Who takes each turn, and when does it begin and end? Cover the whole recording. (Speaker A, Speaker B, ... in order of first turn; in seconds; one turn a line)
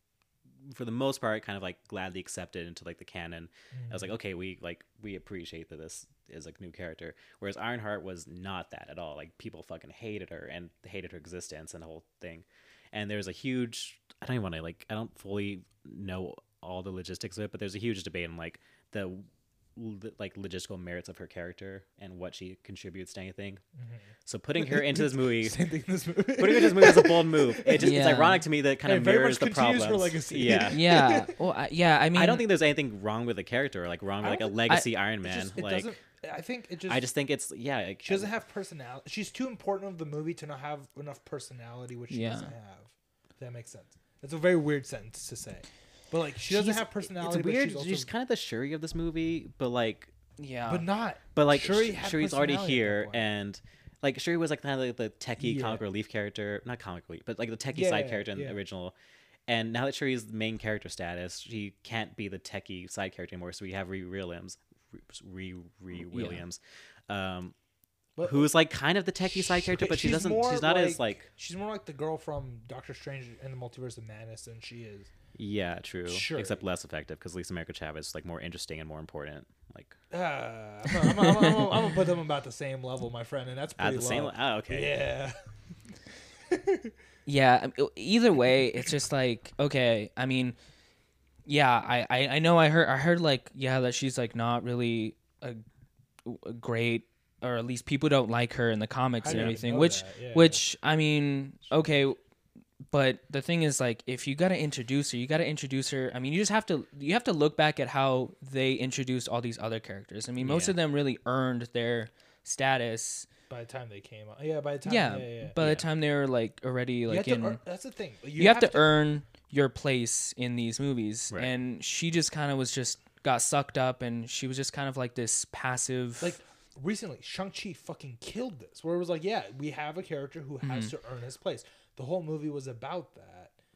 Speaker A: 0.7-23.6
Speaker B: 3.7-4.1
Speaker B: 23.8-28.2
Speaker A: 24.2-25.6
Speaker A: 26.4-30.8
Speaker C: 27.8-28.5
Speaker B: 28.9-31.4
Speaker C: 30.5-32.5
Speaker A: 32.1-35.9
Speaker B: 34.2-37.1
Speaker A: 36.9-38.3
Speaker B: 38.0-48.1
Speaker C: 42.1-42.5
Speaker A: 46.5-50.1
Speaker C: 50.4-50.9
Speaker B: 50.6-53.2
Speaker A: 51.4-59.0
Speaker B: 55.4-55.8
Speaker B: 57.7-58.6
Speaker A: 59.5-67.5
Speaker C: 66.1-66.4
Speaker B: 68.2-68.5
Speaker A: 68.2-71.3
Speaker B: 69.3-75.1
Speaker A: 75.4-80.0
Speaker B: 76.1-76.7
Speaker B: 80.1-85.3
Speaker A: 83.8-84.9
Speaker B: 86.5-86.9
Speaker C: 87.3-90.6
Speaker C: 91.5-95.6
Speaker C: 96.2-102.2
Speaker B: 99.2-100.6
Speaker A: 99.3-99.5
Speaker C: 102.9-113.3
Speaker A: 110.4-110.8
Speaker B: 113.5-115.6
Speaker C: 114.8-117.6
Speaker A: 115.6-115.9
Speaker B: 117.1-118.9
Speaker C: 118.4-126.4
Speaker B: 126.2-133.6
Speaker C: 130.6-130.9